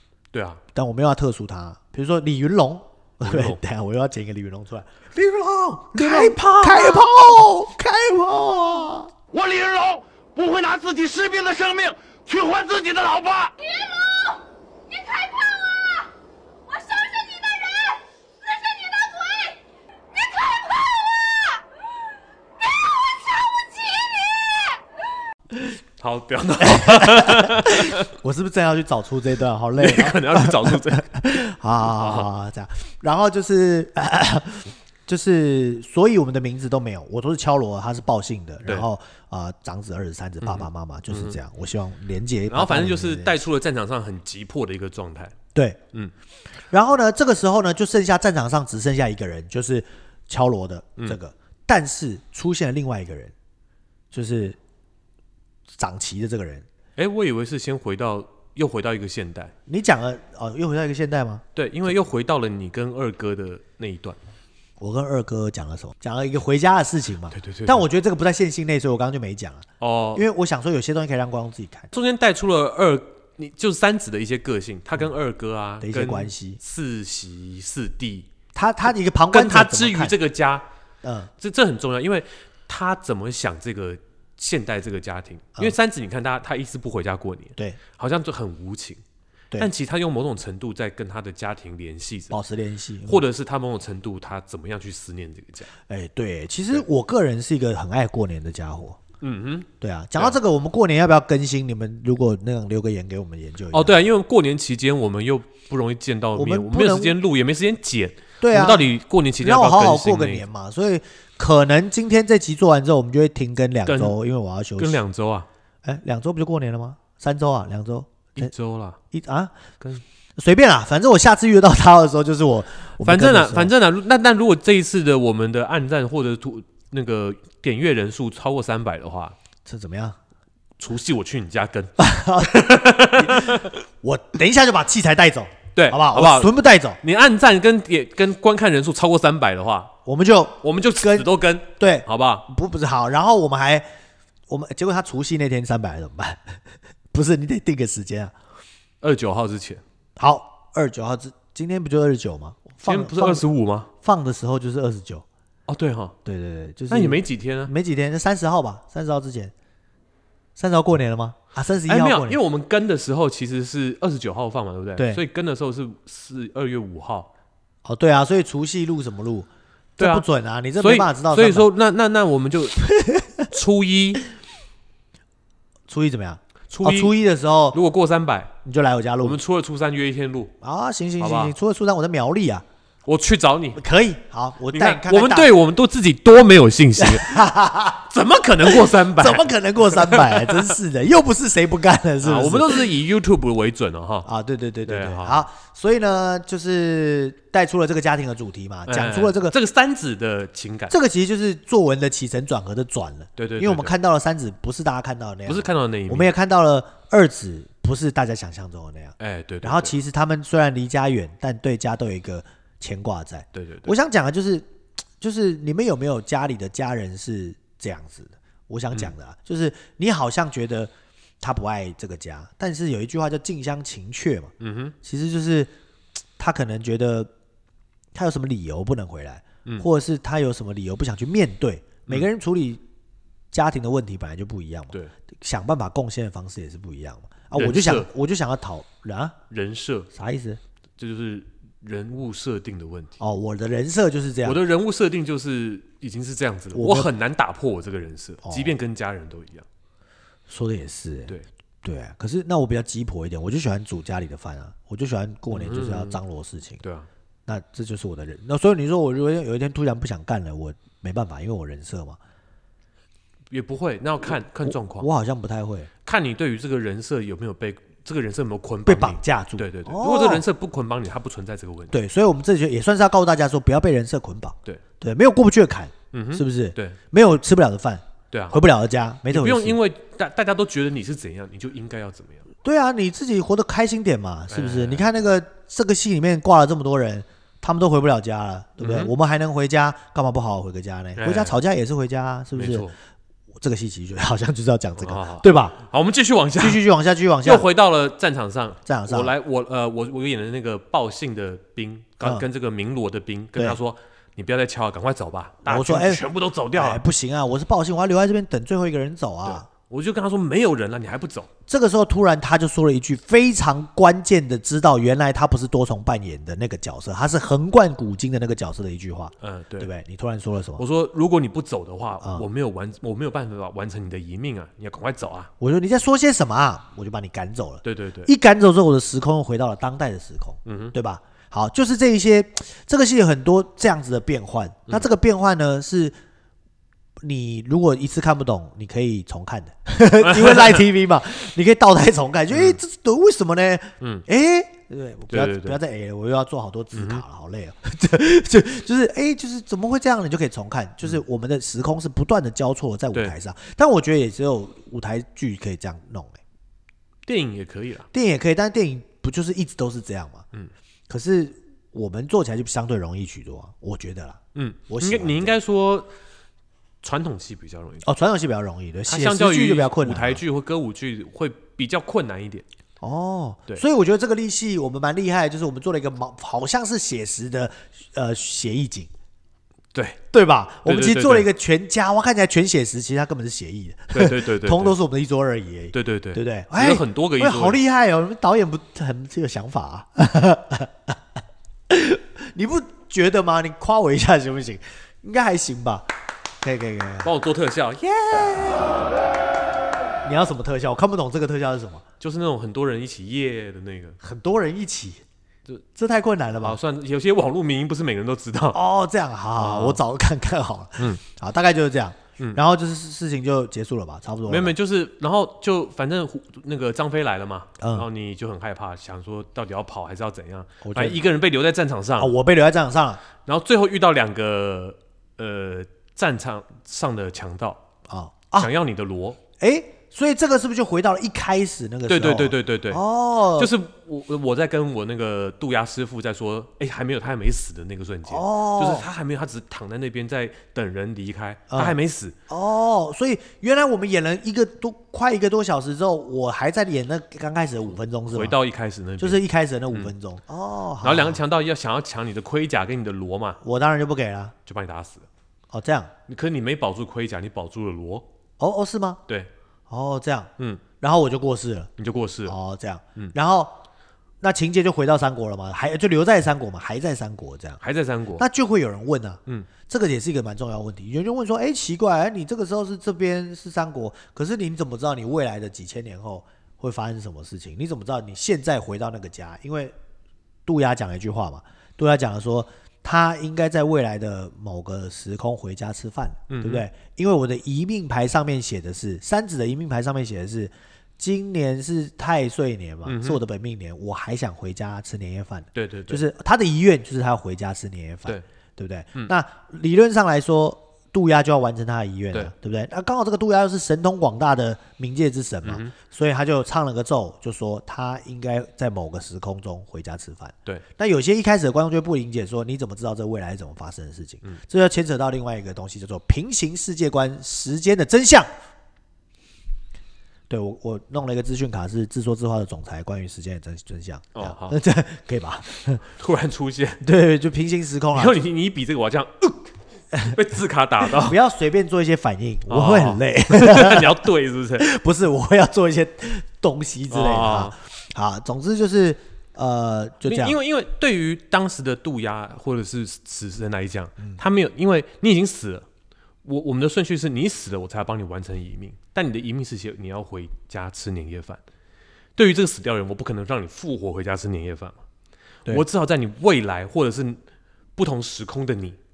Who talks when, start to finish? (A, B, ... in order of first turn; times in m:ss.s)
0:00.3-0:00.6 A
0:00.8-0:09.1 B
0:03.2-0:03.6 A
0:05.9-0:07.4 A
0:09.3-0:13.4 C
0:10.4-0:16.1 D
0:16.7-0:19.6 D
0:20.1-0:21.4 D
0:22.6-0:24.8 D
0:26.0-0:28.1 A
0:26.6-0:43.4 B
0:29.8-0:31.1 A
0:31.8-0:32.3 A
0:40.4-0:41.4 A
0:42.5-0:45.4 A
0:45.5-0:45.8 B
0:46.7-0:53.3 B
0:54.1-0:54.6 B
0:55.8-0:56.6 B
0:57.0-0:59.5 A
0:59.7-1:01.4 B
1:01.6-1:04.2 A
1:04.8-1:11.9 B
1:07.3-1:07.8 A
1:09.8-1:10.3 A
1:11.9-1:18.3 A
1:15.8-1:16.6 B
1:18.6-1:20.2 B
1:19.3-1:20.7 A
1:21.0-1:21.3 B
1:21.4-1:29.0 A
1:29.6-1:32.4 A
1:32.3-1:33.2 B
1:33.1-1:35.7 A
1:35.9-1:39.0 B
1:39.2-1:40.4 A
1:39.8-1:44.0 B
1:43.7-1:50.4 A
1:46.4-1:47.2 B
1:48.4-1:55.0 B
1:53.9-1:54.2 A
1:54.8-1:55.5 A
1:55.8-1:58.5 B
1:58.4-1:59.0 A
1:59.1-1:59.5 B
2:00.4-2:03.7 B
2:03.0-2:09.4 A
2:09.7-2:10.2 B
2:10.8-2:13.8 A
2:12.0-2:17.0 B
2:15.8-2:19.9 A
2:20.0-2:23.9 B
2:20.6-2:22.5 A
2:24.5-2:26.6 B
2:27.1-2:28.3 B
2:29.0-2:29.8 A
2:30.2-2:33.4 B
2:32.8-2:33.9 A
2:34.0-2:35.2 B
2:35.7-2:36.2 A
2:36.2-2:39.5 B
2:36.9-2:37.7 A
2:40.6-2:42.4 B
2:41.9-2:47.3 A
2:45.0-2:45.2 B
2:47.8-2:51.7 B
2:50.0-2:50.2 A
2:50.8-2:52.8 A
2:52.8-2:53.5 B
2:53.5-2:54.2 A
2:55.9-2:57.8 B
2:56.7-2:57.1 A
2:57.7-2:58.5 A
2:58.6-2:59.4 B
2:59.2-3:00.5 A
3:00.6-3:02.6 B
3:01.2-3:01.6 A
3:03.1-3:03.8 A
3:03.8-3:05.5 B
3:04.7-3:07.5 A
3:07.0-3:08.1 B
3:08.1-3:10.7 A
3:08.6-3:12.9 B
3:12.2-3:14.3 A
3:14.2-3:19.6 B
3:14.8-3:15.5 A
3:18.9-3:20.9 A
3:20.9-3:34.7 B
3:23.4-3:24.0 A
3:25.5-3:26.3 A
3:29.2-3:30.0 A
3:33.5-3:34.0 A
3:35.2-3:44.5 B
3:44.6-3:45.0 A
3:45.0-3:45.7 B
3:46.4-3:47.3 B
3:48.1-3:52.8 B
3:53.5-3:59.4 B
3:57.6-3:58.1 A
3:59.5-4:00.1 A
4:00.1-4:00.6 B
4:01.0-4:03.2 A
4:03.2-4:04.6 B
4:04.4-4:09.7 A
4:06.8-4:07.1 B
4:08.4-4:08.8 B
4:10.5-4:16.8 B
4:15.5-4:16.2 A
4:16.8-4:17.1 A
4:17.5-4:22.2 B
4:23.5-4:25.1 A
4:24.7-4:25.9 B
4:26.1-4:32.0 A
4:28.9-4:30.4 B
4:31.9-4:39.8 B
4:36.1-4:37.0 A
4:38.3-4:38.6 A
4:39.3-4:42.4 A
4:42.6-4:52.9 B
4:44.5-4:45.1 A
4:48.8-4:49.1 A
4:51.2-4:51.6 A
4:52.5-4:53.0 A
4:53.6-4:55.8 B
4:55.0-4:56.8 A
4:56.6-4:57.7 B
4:57.4-5:07.0 A
4:58.9-4:59.3 B
5:02.2-5:02.5 B
5:05.6-5:06.2 B
5:06.7-5:09.7 B
5:09.4-5:11.5 A
5:11.7-5:20.8 B
5:19.4-5:19.9 A
5:20.8-5:25.5 A
5:25.6-5:36.2 B
5:27.8-5:28.3 A
5:30.6-5:31.0 A
5:37.2-5:56.4 B
5:40.2-5:40.7 A
5:42.5-5:42.8 A
5:45.3-5:45.8 A
5:47.0-5:47.2 A
5:57.3-5:58.1 A
5:58.1-6:00.5 B
6:01.1-6:05.6 B
6:04.6-6:06.1 A
6:07.0-6:08.1 A
6:08.0-6:10.4 B
6:09.1-6:12.7 A
6:13.0-6:19.1 B
6:19.9-6:20.2 A
6:20.3-6:31.2 B
6:20.8-6:21.5 A
6:24.1-6:25.0 A
6:25.9-6:27.8 A
6:31.9-6:36.1 B
6:36.6-6:37.3 B
6:37.2-6:38.9 A
6:38.5-6:38.8 B
6:40.2-6:42.0 B
6:42.2-6:44.2 A
6:44.2-6:45.2 B
6:46.0-6:46.8 B
6:46.6-6:48.8 A
6:48.7-6:54.7 B
6:49.6-6:50.0 A
6:54.5-7:02.3 A
6:57.8-6:58.1 B
7:00.8-7:01.2 B
7:02.2-7:03.2 B
7:03.4-7:07.8 A
7:08.1-7:08.7 B
7:08.5-7:09.4 A
7:09.6-7:13.7 B
7:12.1-7:13.0 A
7:13.6-7:22.4 A
7:18.3-7:19.1 B
7:21.7-7:22.0 B
7:22.5-7:28.6 B
7:28.3-7:30.1 A
7:29.2-7:31.4 B
7:31.0-7:33.6 A
7:33.6-7:34.6 B
7:34.7-7:35.3 A
7:35.7-7:36.1 B
7:36.3-7:38.3 A
7:38.6-7:39.2 B
7:39.9-7:41.9 B
7:42.0-7:42.6 A
7:42.5-7:43.8 B
7:44.4-7:47.8 B
7:47.8-7:48.4 A
7:48.4-8:00.0 B
8:00.7-8:38.5 B
8:06.5-8:06.9 A
8:13.0-8:13.4 A
8:15.8-8:16.3 A
8:25.6-8:25.9 A
8:40.5-8:46.0 B
8:44.4-8:44.8 A
8:46.2-8:47.0 A
8:47.0-8:48.4 B
8:48.2-8:49.7 A
8:50.2-8:51.4 A
8:51.1-8:54.3 B
8:52.7-8:54.9 A
8:54.8-9:00.6 B
8:57.1-8:57.8 A
9:00.2-9:05.9 A
9:06.4-9:11.6 A
9:12.4-9:15.0 A
9:15.7-9:17.4 A
9:18.0-9:19.0 A